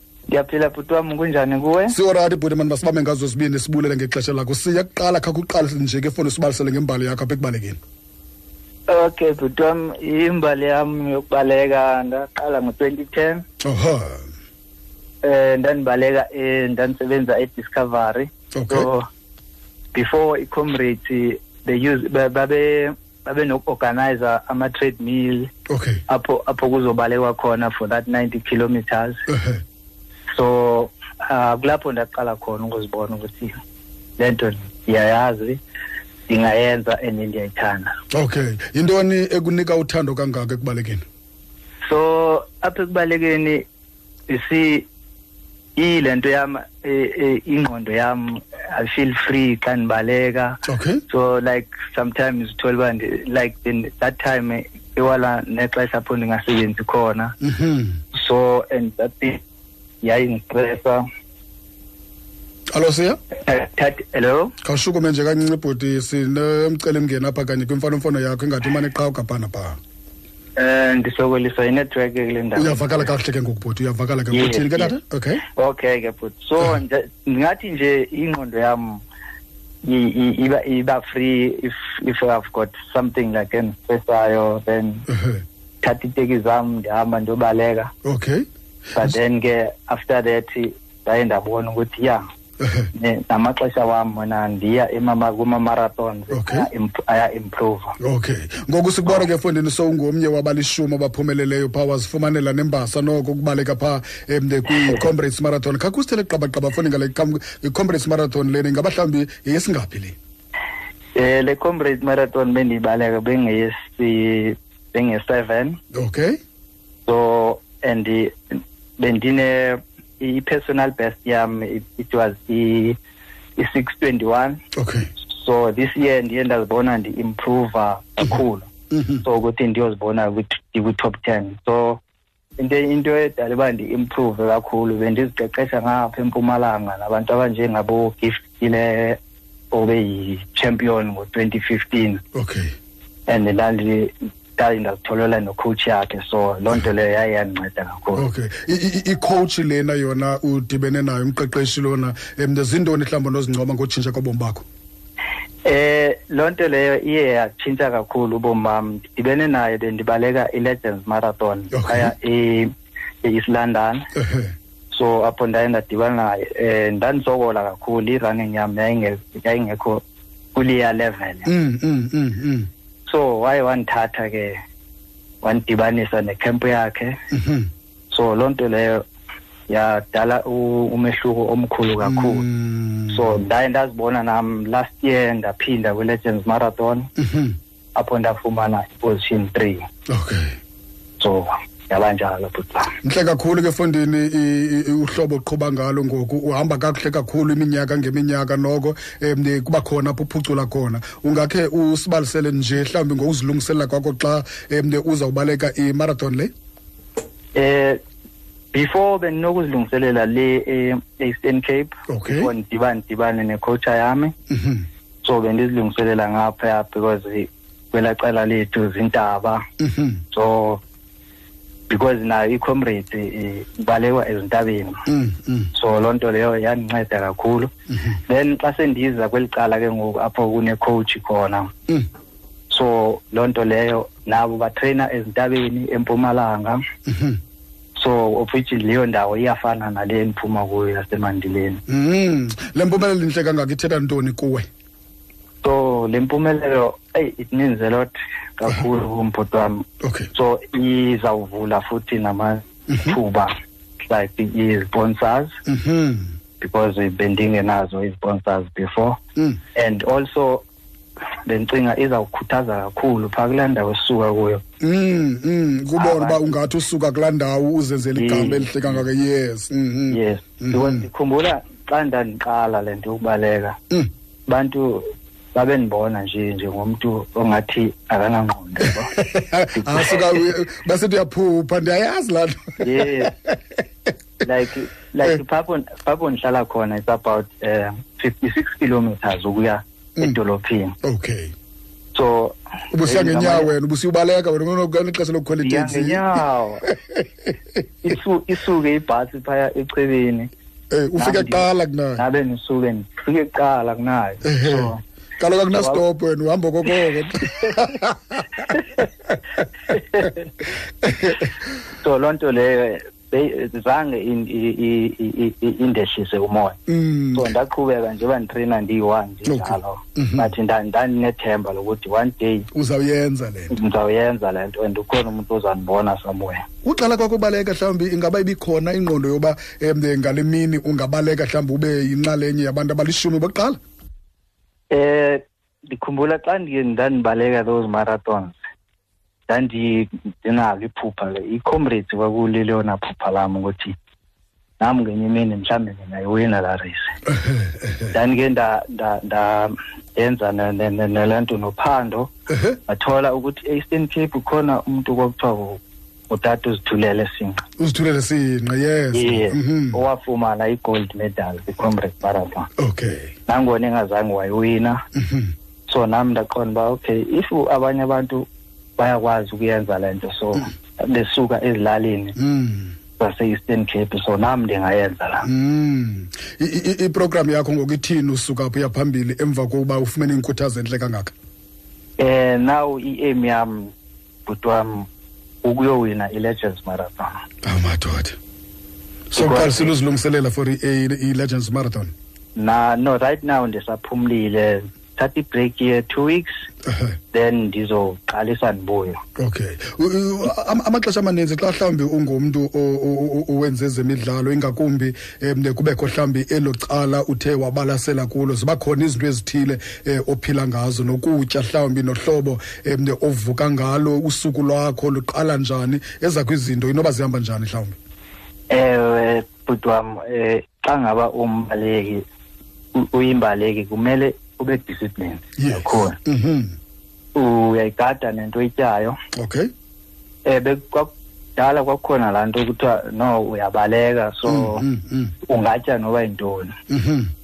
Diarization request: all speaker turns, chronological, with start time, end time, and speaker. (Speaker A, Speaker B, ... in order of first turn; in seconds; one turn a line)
Speaker A: 0.3-1.9
Speaker B: 1.9-7.8
Speaker A: 8.9-13.4
Speaker B: 13.6-14.2
Speaker A: 15.2-19.1
Speaker B: 18.5-18.9
Speaker A: 19.9-25.5
Speaker B: 25.7-26.0
Speaker A: 26.1-29.2
Speaker B: 29.3-29.6
Speaker A: 30.3-33.6
Speaker A: 34.2-35.6
Speaker A: 36.3-37.9
Speaker B: 38.1-41.0
Speaker A: 41.9-43.6
Speaker A: 44.3-44.9
Speaker A: 45.8-57.3
Speaker B: 50.7-51.0
Speaker B: 57.4-58.0
Speaker A: 58.1-59.4
Speaker A: 60.0-61.0
Speaker B: 62.7-63.2
Speaker A: 63.5-64.5
Speaker B: 64.6-69.8
Speaker A: 70.6-73.1
Speaker B: 72.5-75.4
Speaker A: 74.3-74.9
Speaker A: 75.5-79.0
Speaker A: 79.8-85.0
Speaker B: 85.1-85.4
Speaker A: 85.8-87.9
Speaker B: 88.0-88.5
Speaker A: 88.9-92.2
Speaker B: 92.6-92.9
Speaker A: 92.9-98.0
Speaker B: 96.3-96.7
Speaker B: 98.0-110.2
Speaker A: 111.2-115.8
Speaker B: 115.9-116.4
Speaker A: 117.0-123.0
Speaker A: 123.6-124.6
Speaker B: 124.8-125.1
Speaker A: 125.2-128.7
Speaker B: 128.9-129.2
Speaker A: 129.2-132.0
Speaker A: 132.6-139.2
Speaker A: 139.7-142.2
Speaker B: 142.3-142.7
Speaker A: 143.3-148.2
Speaker B: 148.2-154.6
Speaker A: 155.6-162.7
Speaker B: 161.7-162.1
Speaker A: 163.2-164.1
Speaker B: 164.1-164.5
Speaker A: 164.9-170.0
Speaker A: 170.5-171.5
Speaker B: 171.4-172.7
Speaker A: 173.1-174.6
Speaker A: 175.4-177.2
Speaker B: 177.3-177.7
Speaker A: 178.1-179.0
Speaker A: 179.7-182.4
Speaker B: 182.0-183.2
Speaker A: 183.1-187.1
Speaker B: 187.2-187.6
Speaker A: 187.9-189.8
Speaker B: 190.1-190.6
Speaker A: 191.2-192.9
Speaker B: 193.0-206.5
Speaker A: 207.5-208.0
Speaker A: 208.7-214.3
Speaker B: 212.1-212.5
Speaker B: 214.5-214.8
Speaker A: 215.2-219.6
Speaker B: 219.8-220.2
Speaker A: 220.3-220.8
Speaker A: 221.9-225.0
Speaker B: 225.1-225.7
Speaker A: 225.7-227.7
Speaker A: 228.3-231.7
Speaker A: 232.7-236.8
Speaker B: 237.1-237.4
Speaker A: 237.9-241.8
Speaker B: 241.9-244.7
Speaker A: 245.6-253.5
Speaker B: 250.0-250.3
Speaker A: 254.1-255.6
Speaker B: 255.7-256.3
Speaker A: 256.6-259.2
Speaker A: 259.7-260.6
Speaker A: 261.4-264.6
Speaker B: 264.8-271.0
Speaker A: 265.9-266.4
Speaker A: 268.1-269.0
Speaker A: 270.1-273.8
Speaker A: 274.5-279.1
Speaker B: 279.1-283.6
Speaker A: 279.7-280.5
Speaker A: 282.8-283.3
Speaker A: 284.4-290.9
Speaker B: 291.0-291.5
Speaker A: 292.1-293.7
Speaker B: 292.9-297.5
Speaker A: 295.6-296.8
Speaker A: 298.0-300.5
Speaker B: 300.9-302.2
Speaker A: 301.2-305.0
Speaker B: 304.4-309.4
Speaker A: 305.7-306.0
Speaker A: 309.9-310.4
Speaker B: 311.0-311.5
Speaker A: 312.0-316.8
Speaker B: 316.9-317.5
Speaker A: 317.3-322.7
Speaker B: 319.5-320.5
Speaker B: 322.7-323.8
Speaker A: 323.7-326.6
Speaker B: 326.8-333.8
Speaker A: 334.9-338.6
Speaker A: 339.5-343.9
Speaker A: 344.8-347.2
Speaker B: 347.3-348.1
Speaker A: 348.1-352.3
Speaker B: 352.5-352.8
Speaker A: 352.9-357.6
Speaker B: 357.8-360.0
Speaker A: 359.1-362.7
Speaker B: 362.8-363.3
Speaker A: 363.5-365.0
Speaker B: 365.1-365.5
Speaker A: 365.9-368.4
Speaker A: 369.0-372.4
Speaker B: 372.4-372.9
Speaker A: 373.2-375.5
Speaker B: 375.4-381.3
Speaker A: 382.2-383.9
Speaker A: 384.4-385.1
Speaker A: 385.6-387.4
Speaker B: 387.6-388.4
Speaker B: 389.3-392.1
Speaker A: 389.3-389.9
Speaker A: 392.6-396.6
Speaker B: 396.9-397.2
Speaker A: 397.3-399.2
Speaker B: 399.4-418.0
Speaker A: 418.7-422.2
Speaker A: 422.9-426.2
Speaker B: 425.6-426.7
Speaker A: 427.3-429.2
Speaker B: 429.3-429.7
Speaker A: 430.4-434.9
Speaker B: 434.5-435.3
Speaker A: 435.4-436.7
Speaker B: 436.9-437.3